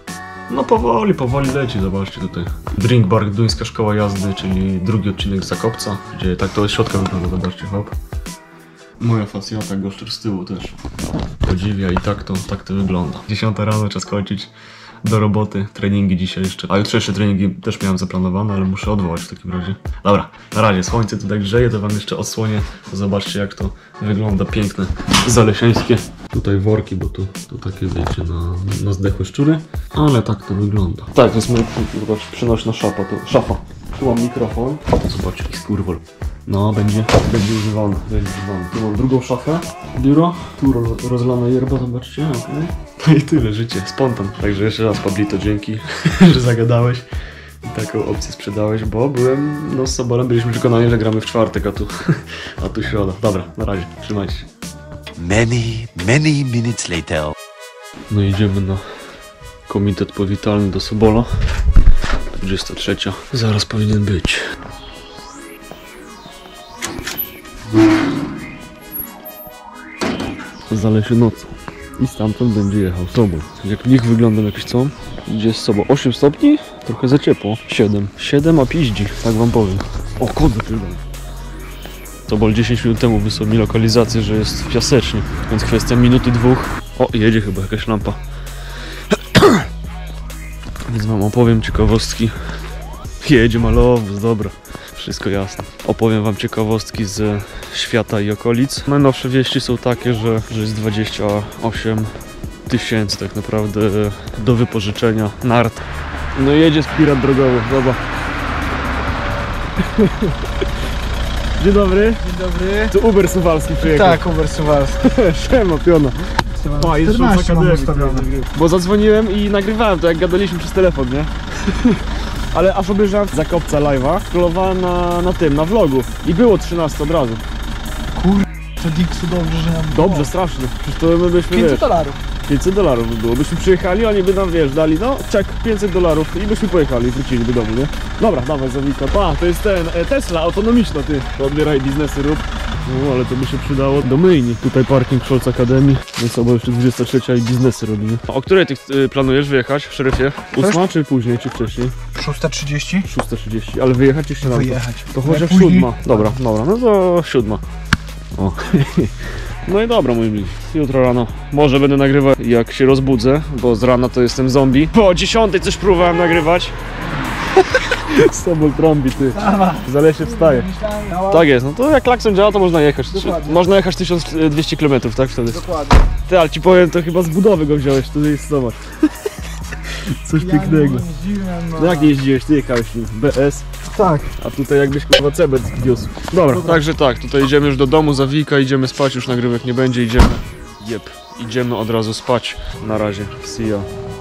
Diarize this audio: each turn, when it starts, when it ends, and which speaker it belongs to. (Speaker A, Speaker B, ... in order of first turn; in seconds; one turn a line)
Speaker A: 0.5-7.9
Speaker A: 9.0-10.8
Speaker A: 11.4-14.5
Speaker A: 15.0-47.1
Speaker A: 47.6-54.5
Speaker B: 55.2-57.3
Speaker A: 58.1-58.9
Speaker A: 59.7-61.3
Speaker A: 62.4-64.4
Speaker A: 70.7-81.0
Speaker A: 82.3-88.2
Speaker A: 89.1-89.6
Speaker A: 90.9-92.4
Speaker A: 93.2-102.1
Speaker A: 102.7-108.0
Speaker A: 109.8-110.4
Speaker A: 111.6-112.3
Speaker C: 112.2-112.9
Speaker A: 112.8-114.2
Speaker C: 113.8-115.0
Speaker A: 115.0-127.4
Speaker C: 116.5-118.3
Speaker C: 128.2-130.3
Speaker A: 129.9-131.9
Speaker C: 131.5-132.2
Speaker A: 132.4-151.9
Speaker C: 152.2-153.1
Speaker A: 153.0-157.6
Speaker C: 154.4-156.3
Speaker A: 158.4-166.8
Speaker A: 167.7-170.7
Speaker C: 169.4-171.4
Speaker A: 171.2-175.7
Speaker C: 173.1-173.6
Speaker C: 175.5-176.1
Speaker A: 176.2-178.8
Speaker A: 179.9-181.1
Speaker C: 180.4-182.2
Speaker A: 181.8-183.7
Speaker C: 183.9-184.3
Speaker A: 184.4-193.9
Speaker C: 186.5-186.8